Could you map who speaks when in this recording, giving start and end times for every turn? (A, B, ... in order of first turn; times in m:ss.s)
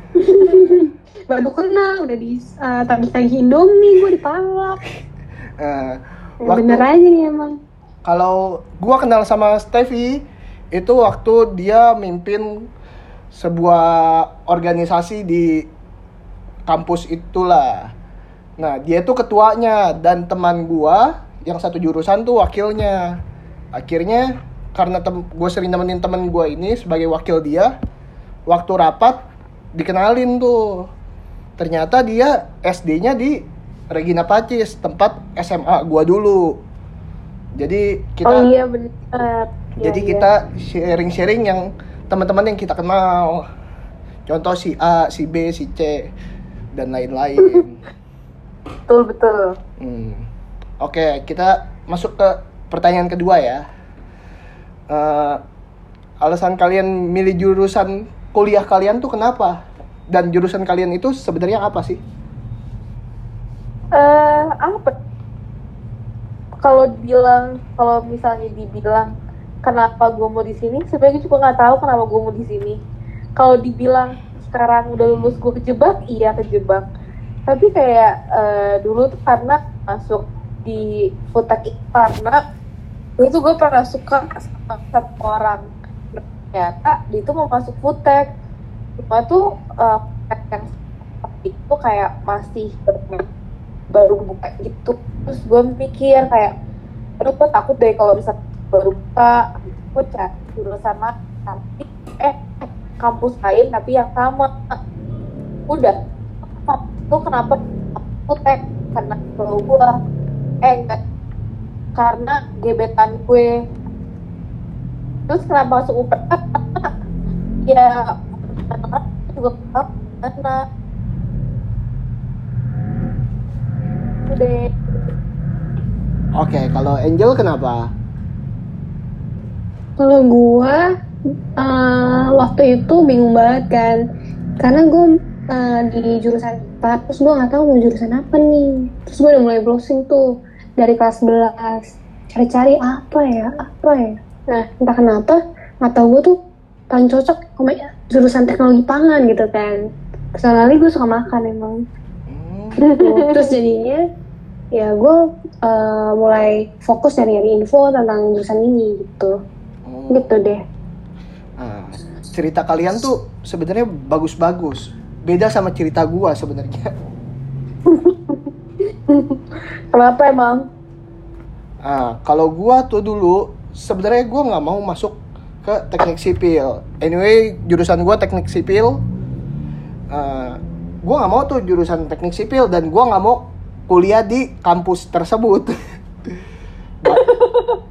0:00.4-0:04.8 A
0:00.4-0:00.7 B
0:05.6-0:06.8 C
0:06.4-0:07.6 A
0:08.0-0:12.7 C
0:13.3-0:15.6 C
0:16.7-0:17.9 C
0:18.6-0:23.2 C
0:23.7-0:27.7 C
0:28.5-0:29.2 C
0:29.7-0:30.9 C
0:31.6-0:36.6 C
0:37.6-0:38.5 C
0:38.2-0:40.3 B
0:39.8-0:43.4 C
0:44.3-0:46.1 C
0:46.7-0:47.8 C
0:48.9-0:49.6 B
0:49.8-0:50.2 C
0:50.8-0:53.6 C
0:54.9-0:55.4 C
0:56.2-0:59.6 C
1:00.1-1:02.0 C
1:03.9-1:04.9 B
1:06.6-1:09.1 B
1:09.6-1:12.8 B
1:13.4-1:16.8 B
1:17.5-1:22.4 B
1:23.2-1:28.3 B
1:29.0-1:33.2 B
1:33.9-1:36.5 B
1:37.2-1:44.8 B
1:45.7-1:46.0 B
1:46.6-1:49.9 B
1:50.6-1:51.0 B
1:51.9-1:53.5 B
1:55.3-1:56.9 B
1:57.6-2:00.6 B
2:04.2-2:04.7 B
2:06.4-2:07.9 C
2:10.0-2:10.8 A
2:11.6-2:14.0 A
2:14.6-2:20.2 A
2:20.8-2:26.4 A
2:26.9-2:29.8 A
2:30.3-2:31.8 A
2:32.3-2:32.8 C
2:32.8-2:34.0 A
2:32.9-2:33.4 B
2:34.7-2:39.4 A
2:39.8-2:40.3 C
2:40.1-2:40.6 A
2:41.6-2:46.9 C
2:47.9-2:48.4 B
2:49.1-2:49.4 B
2:49.9-2:50.7 B
2:51.8-2:59.0 C
3:00.1-3:05.7 C
3:07.1-3:07.8 B